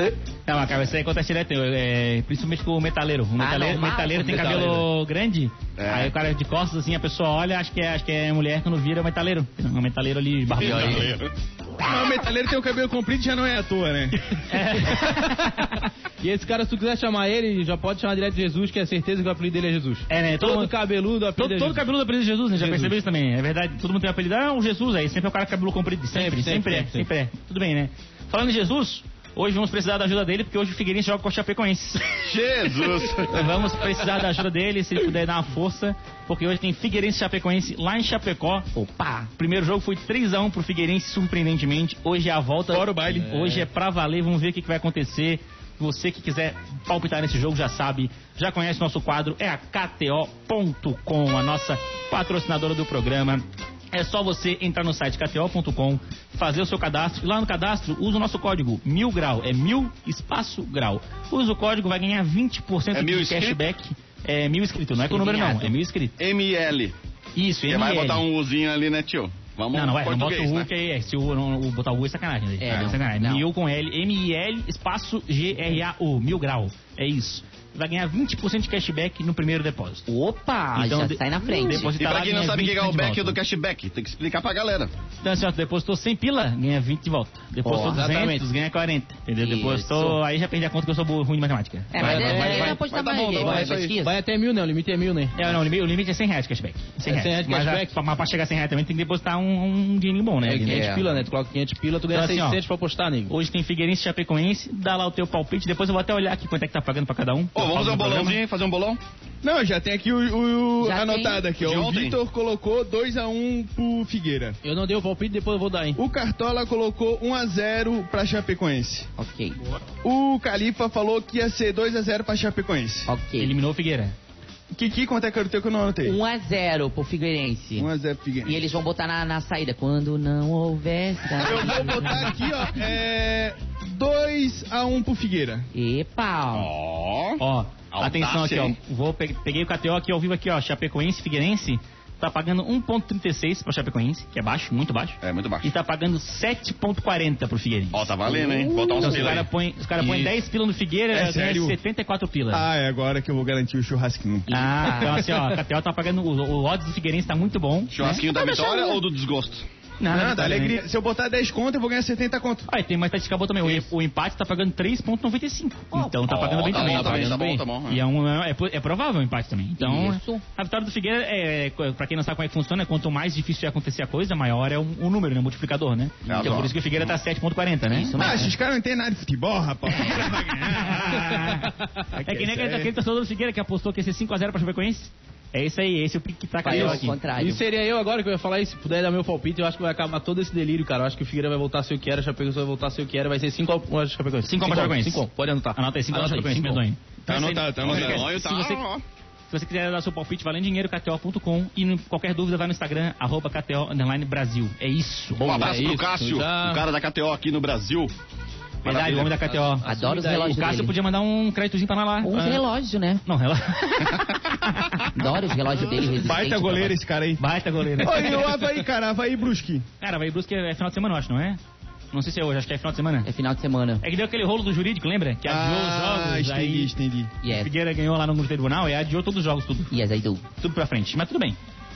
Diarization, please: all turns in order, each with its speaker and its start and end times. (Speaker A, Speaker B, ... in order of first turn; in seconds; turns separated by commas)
Speaker A: 0.5-11.2, Speaker B: 3.4-4.7, Speaker C: 4.2-4.9, Speaker D: 5.8-6.2, Speaker D: 10.6-11.3, Speaker E: 11.8-14.2, Speaker A: 14.5-15.8, Speaker C: 14.9-15.2, Speaker C: 16.2-21.9, Speaker A: 20.1-20.7, Speaker A: 21.4-32.3, Speaker C: 22.6-23.0, Speaker C: 26.1-27.1, Speaker D: 32.2-33.5, Speaker A: 33.1-38.7, Speaker B: 38.7-39.3, Speaker A: 39.4-66.2, Speaker E: 42.7-43.4, Speaker C: 43.1-43.6, Speaker D: 62.9-63.6, Speaker B: 65.0-65.7, Speaker D: 66.2-66.9, Speaker A: 67.4-68.2, Speaker D: 67.7-70.7, Speaker A: 69.7-80.1, Speaker B: 72.6-73.5, Speaker B: 80.1-81.9, Speaker A: 80.8-83.4, Speaker D: 82.0-84.9, Speaker A: 85.2-92.8, Speaker B: 87.7-88.0, Speaker C: 87.7-88.5, Speaker B: 89.4-90.2, Speaker B: 91.9-94.2, Speaker C: 92.0-92.8, Speaker D: 92.3-93.9, Speaker C: 93.3-95.5, Speaker A: 95.3-101.0, Speaker C: 97.0-98.0, Speaker C: 100.4-103.3, Speaker B: 100.6-101.0, Speaker A: 102.1-102.6, Speaker A: 103.3-108.4, Speaker D: 107.5-109.0, Speaker E: 109.4-114.6, Speaker B: 110.8-111.4, Speaker D: 111.6-112.2, Speaker C: 114.6-116.0, Speaker E: 116.0-119.1, Speaker B: 119.2-119.6, Speaker E: 120.0-123.1, Speaker B: 123.1-123.6, Speaker A: 123.4-124.2, Speaker E: 124.7-126.2, Speaker B: 126.0-127.9, Speaker E: 127.8-128.6, Speaker B: 128.4-132.2, Speaker E: 131.4-135.7, Speaker B: 135.7-136.7, Speaker D: 136.5-138.8, Speaker A: 137.4-148.2, Speaker D: 145.2-145.7, Speaker D: 147.9-149.5, Speaker B: 148.3-149.4, Speaker A: 149.0-152.7, Speaker C: 150.0-150.3, Speaker E: 151.1-151.8, Speaker E: 152.5-154.5, Speaker B: 154.5-155.4, Speaker A: 154.5-158.2, Speaker D: 157.9-159.7, Speaker B: 158.0-159.0, Speaker A: 160.0-160.8, Speaker E: 160.1-162.7, Speaker A: 162.7-178.2, Speaker B: 165.9-166.2, Speaker D: 166.3-168.0, Speaker C: 166.8-167.5, Speaker B: 169.8-170.4, Speaker D: 176.3-177.1, Speaker B: 177.9-178.6, Speaker E: 178.2-182.9, Speaker A: 180.1-187.2, Speaker B: 186.6-187.6, Speaker C: 186.7-196.8, Speaker A: 194.4-198.8, Speaker E: 197.3-198.3, Speaker D: 197.8-199.0, Speaker A: 199.5-205.7, Speaker D: 205.4-208.1, Speaker C: 205.5-206.8, Speaker A: 208.8-212.6, Speaker D: 208.8-209.4, Speaker C: 209.4-210.8, Speaker B: 209.8-210.9, Speaker B: 212.2-213.2, Speaker A: 213.3-215.8, Speaker B: 215.1-216.9, Speaker E: 216.2-217.4, Speaker A: 217.4-218.6, Speaker E: 218.0-219.8, Speaker A: 220.0-221.6, Speaker A: 222.1-223.3, Speaker B: 223.2-224.1, Speaker A: 224.0-226.9, Speaker E: 225.4-227.3, Speaker B: 227.4-227.7, Speaker A: 227.5-229.9, Speaker B: 229.9-230.4, Speaker A: 230.6-231.6